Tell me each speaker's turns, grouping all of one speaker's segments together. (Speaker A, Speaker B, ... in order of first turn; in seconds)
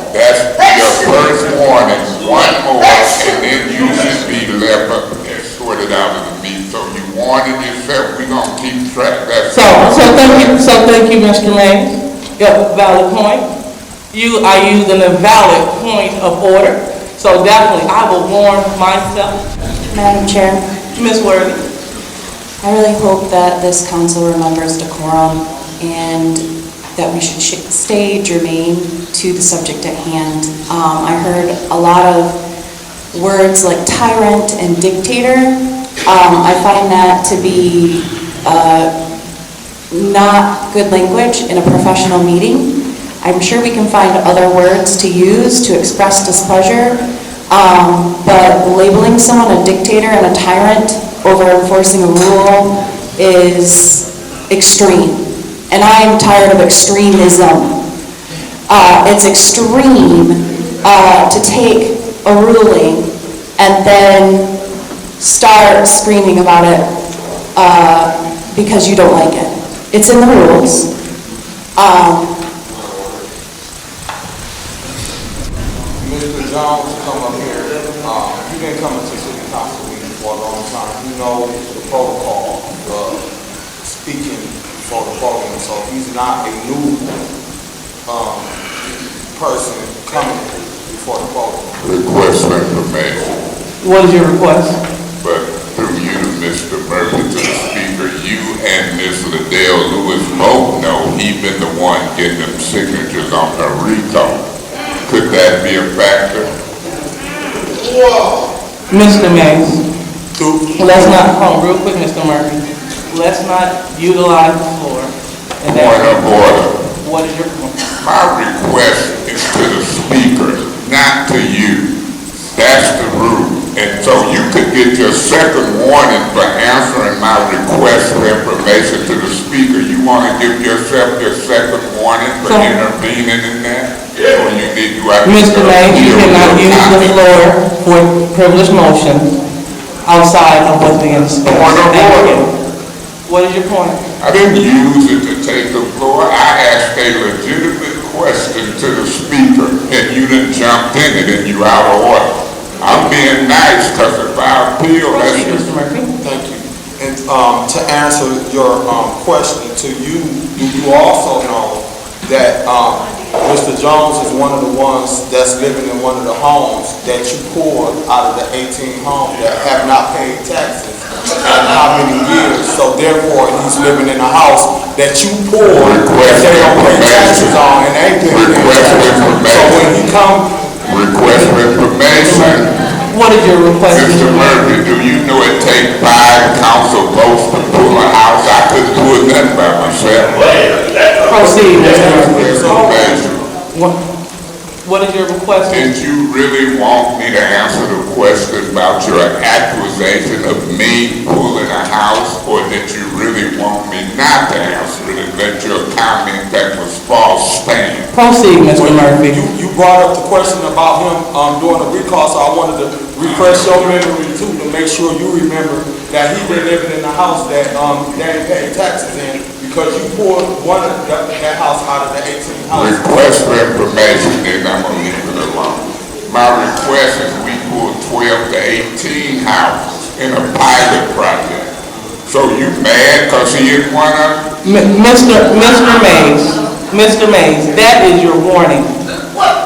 Speaker A: 0.1-10.6, 91.8-93.3, 95.2-104.4, 105.1-106.5, 115.7-116.7, 118.0-121.9, 122.5-137.2, 141.4-142.4, 144.2-155.7, 175.7-177.6, 178.3-179.9, 180.8-182.7, 183.9-190.5, 192.0-193.3, 195.7-208.1, 213.2-213.9, 222.7-231.7, 232.3-234.4
Speaker B: 9.5-13.5, 14.1-19.4, 20.9-21.6, 93.8-94.8, 108.9-109.8, 110.8-117.7, 132.4-132.7, 135.2-139.4, 140.1-142.5, 143.3-144.0, 155.1-156.1, 181.3-181.5, 182.2-184.8, 191.2-193.2, 194.8-195.9, 208.1-209.4, 234.6-238.9
Speaker C: 19.9-20.6, 22.6-26.4, 27.0-32.4, 33.1-35.5, 36.1-38.9, 39.9-42.7, 43.2-47.0, 47.5-57.7, 58.7-64.5, 65.2-66.9, 67.6-70.9, 71.8-72.3
Speaker D: 76.0-83.3, 83.8-87.0, 88.1-88.7, 89.3-91.7, 110.4-111.3, 156.2-180.5, 191.7-193.4, 208.7-223.0